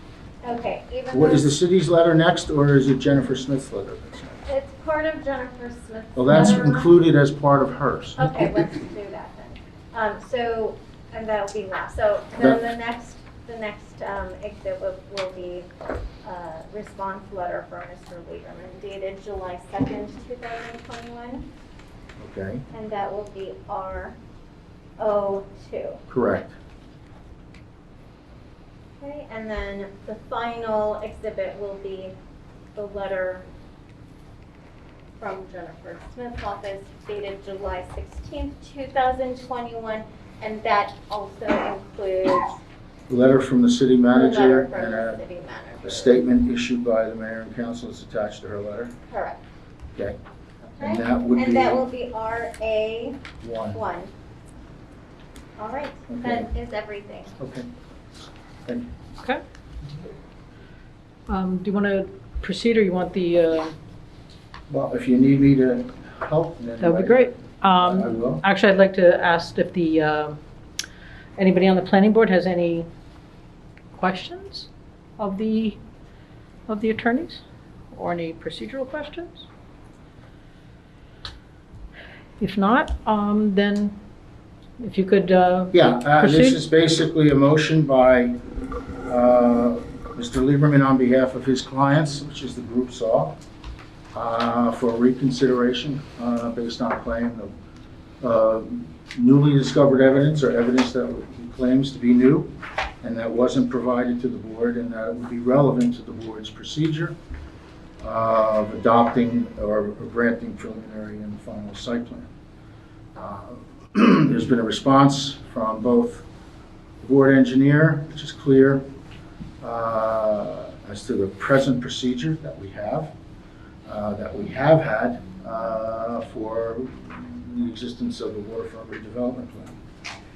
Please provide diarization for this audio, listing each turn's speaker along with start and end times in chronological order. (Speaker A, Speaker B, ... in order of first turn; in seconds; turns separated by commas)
Speaker A: 0.4-1.5, Speaker B: 1.1-4.4, Speaker A: 4.5-6.9, Speaker B: 6.1-8.7, Speaker A: 8.2-15.7, Speaker B: 12.4-12.6, Speaker A: 16.2-21.5, Speaker B: 22.2-22.6, Speaker A: 22.7-24.2, Speaker A: 25.0-26.0, Speaker B: 26.1-26.5, Speaker A: 29.0-32.1, Speaker A: 32.8-33.5, Speaker A: 35.2-42.6, Speaker B: 43.1-45.2, Speaker A: 44.1-46.1, Speaker B: 45.8-48.9, Speaker A: 49.1-49.4, Speaker A: 50.6-54.1, Speaker B: 50.8-51.8, Speaker B: 53.4-53.8, Speaker A: 55.6-57.4, Speaker B: 56.1-56.5, Speaker B: 57.4-57.7, Speaker B: 58.6-58.9, Speaker C: 61.3-63.8, Speaker B: 64.7-68.4, Speaker C: 66.8-70.4, Speaker C: 71.4-72.9, Speaker C: 73.9-75.8, Speaker C: 76.7-79.5, Speaker C: 82.4-84.0, Speaker C: 84.8-86.6, Speaker B: 85.7-88.4, Speaker B: 89.1-93.3, Speaker B: 94.1-97.5, Speaker B: 98.2-107.2, Speaker B: 108.0-112.3, Speaker B: 113.2-116.2, Speaker B: 117.0-118.8, Speaker B: 119.6-123.1, Speaker B: 123.9-129.8